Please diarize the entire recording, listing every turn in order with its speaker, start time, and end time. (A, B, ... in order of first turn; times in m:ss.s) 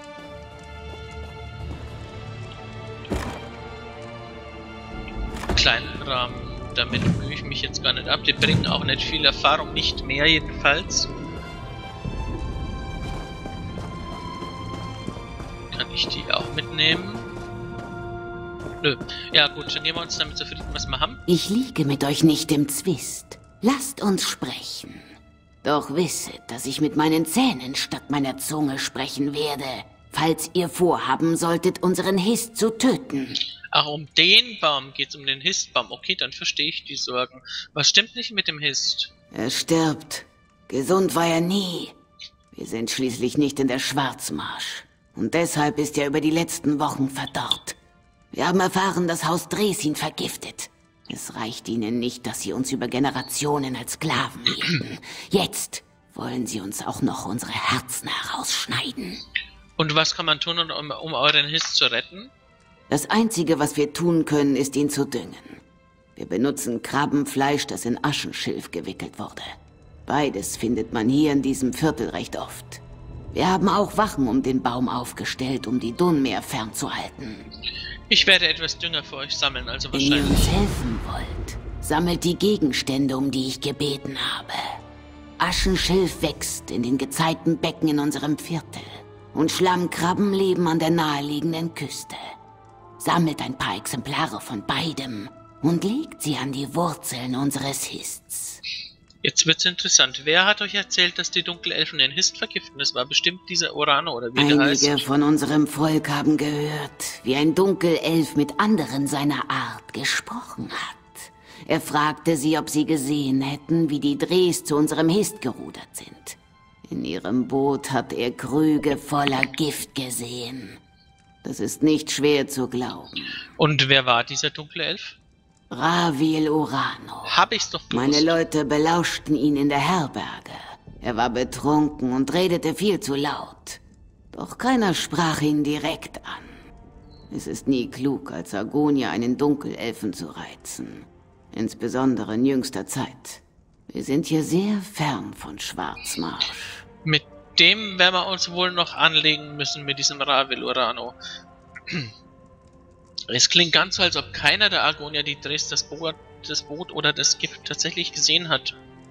0:05.5-0:11.1 A
0:15.7-0:17.3 A
0:18.8-0:21.2 A
0:21.3-0:25.1 B
0:25.6-0:33.4 B
0:33.7-0:39.1 A
0:39.3-0:42.0 B
0:42.5-0:47.8 B
0:48.3-0:59.2 B
0:59.8-1:02.3 A
1:02.9-1:05.6 B
1:06.2-1:09.5 B
1:10.1-1:12.8 B
1:13.3-1:17.5 B
1:18.1-1:20.5 A
1:19.9-1:24.6 B
1:25.4-1:32.2 B
1:33.0-1:38.6 B
1:39.2-1:45.0 A
1:44.4-2:00.8 B
2:01.4-2:03.4 B
2:03.6-2:05.2 A
2:05.7-2:07.4 B
2:07.3-2:08.4 A
2:07.9-2:13.8 B
2:14.3-2:16.6 B
2:17.3-2:26.8 B
2:27.0-2:31.2 A
2:33.3-2:38.8 A